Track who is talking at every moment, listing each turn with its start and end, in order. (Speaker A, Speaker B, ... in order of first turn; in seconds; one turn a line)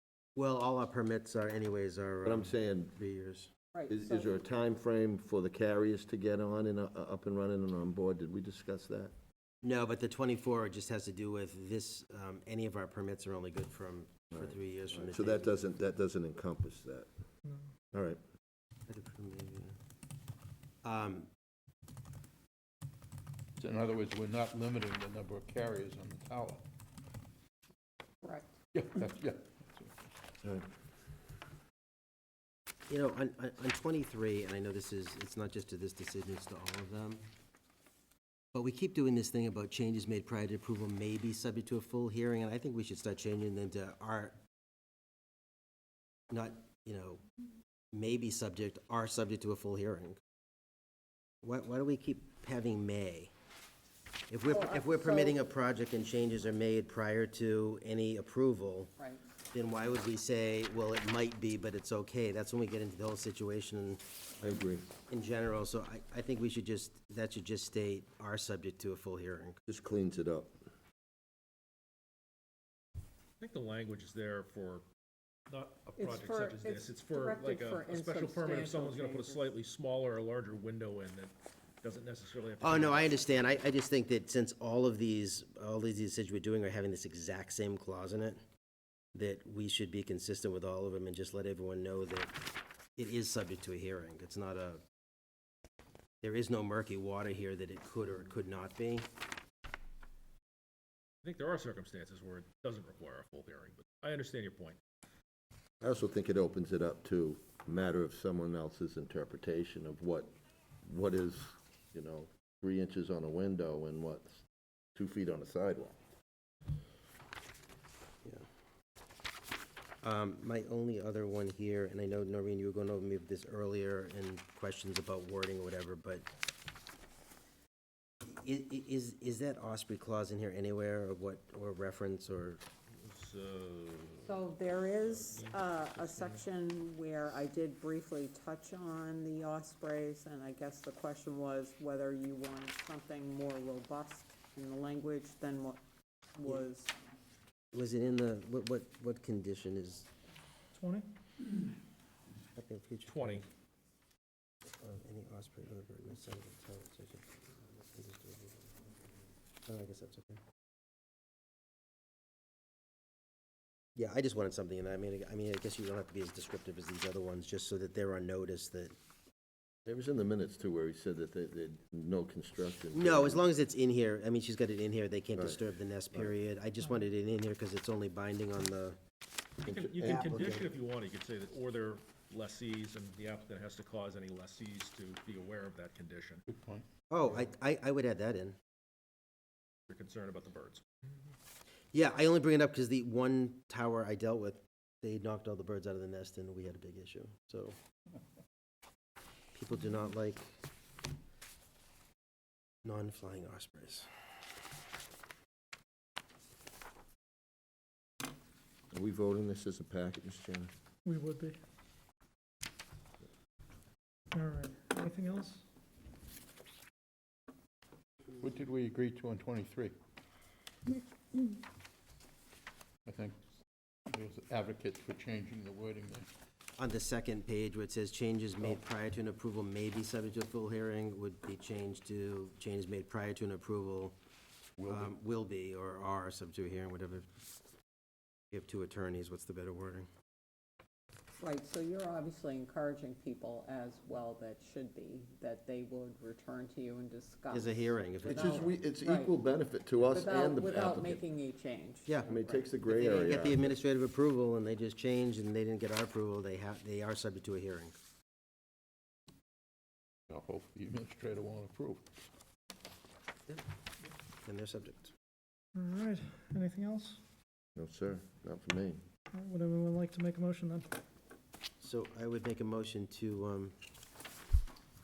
Speaker A: 0.4-3.5
Speaker B: 2.2-3.0
Speaker C: 3.7-4.3
Speaker B: 3.9-9.1
Speaker A: 9.6-15.6
Speaker B: 14.3-17.1
Speaker B: 17.9-18.2
Speaker A: 18.9-19.8
Speaker A: 20.8-21.3
Speaker D: 23.6-26.6
Speaker D: 28.7-29.9
Speaker A: 32.9-37.2
Speaker A: 38.5-44.4
Speaker A: 46.3-47.2
Speaker A: 47.9-50.2
Speaker A: 51.4-53.3
Speaker A: 54.3-58.9
Speaker C: 54.5-55.4
Speaker C: 59.0-59.2
Speaker A: 59.5-69.6
Speaker B: 64.4-64.9
Speaker B: 69.7-70.5
Speaker E: 73.4-74.8
Speaker E: 75.5-83.1
Speaker C: 76.0-79.4
Speaker A: 82.6-88.4
Speaker A: 89.1-92.3
Speaker A: 93.0-94.8
Speaker A: 96.2-99.1
Speaker E: 101.2-104.8
Speaker B: 105.8-110.3
Speaker B: 110.9-114.4
Speaker B: 115.0-116.0
Speaker A: 120.0-126.2
Speaker A: 128.2-132.6
Speaker E: 133.0-134.4
Speaker C: 134.2-145.8
Speaker E: 135.1-136.4
Speaker C: 146.4-146.9
Speaker A: 147.7-150.1
Speaker F: 150.7-151.1
Speaker A: 152.6-153.5
Speaker E: 153.1-153.5
Speaker A: 154.8-158.7
Speaker A: 159.7-160.4
Speaker A: 164.0-168.9
Speaker B: 169.8-173.4
Speaker A: 172.9-179.0
Speaker A: 179.6-180.7
Speaker E: 179.6-186.4
Speaker D: 186.5-186.8
Speaker A: 187.1-188.6
Speaker E: 189.9-190.8
Speaker A: 191.9-197.8
Speaker A: 199.5-200.6
Speaker A: 202.8-204.1
Speaker B: 208.9-210.7
Speaker F: 211.1-211.6
Speaker F: 214.3-215.6
Speaker D: 218.4-219.9
Speaker D: 223.1-223.4
Speaker D: 224.1-226.3
Speaker A: 226.8-234.2
Speaker D: 234.8-235.1
Speaker A: 234.9-237.3
Speaker A: 238.5-240.1
Speaker C: 241.4-249.3
Speaker A: 247.5-248.5
Speaker B: 248.3-251.2
Speaker C: 250.1-252.7
Speaker A: 252.1-257.9
Speaker B: 252.3-253.8
Speaker D: 260.3-262.1
Speaker A: 264.4-265.1
Speaker F: 265.8-267.2
Speaker B: 267.8-269.0
Speaker F: 269.3-270.9
Speaker A: 271.8-273.8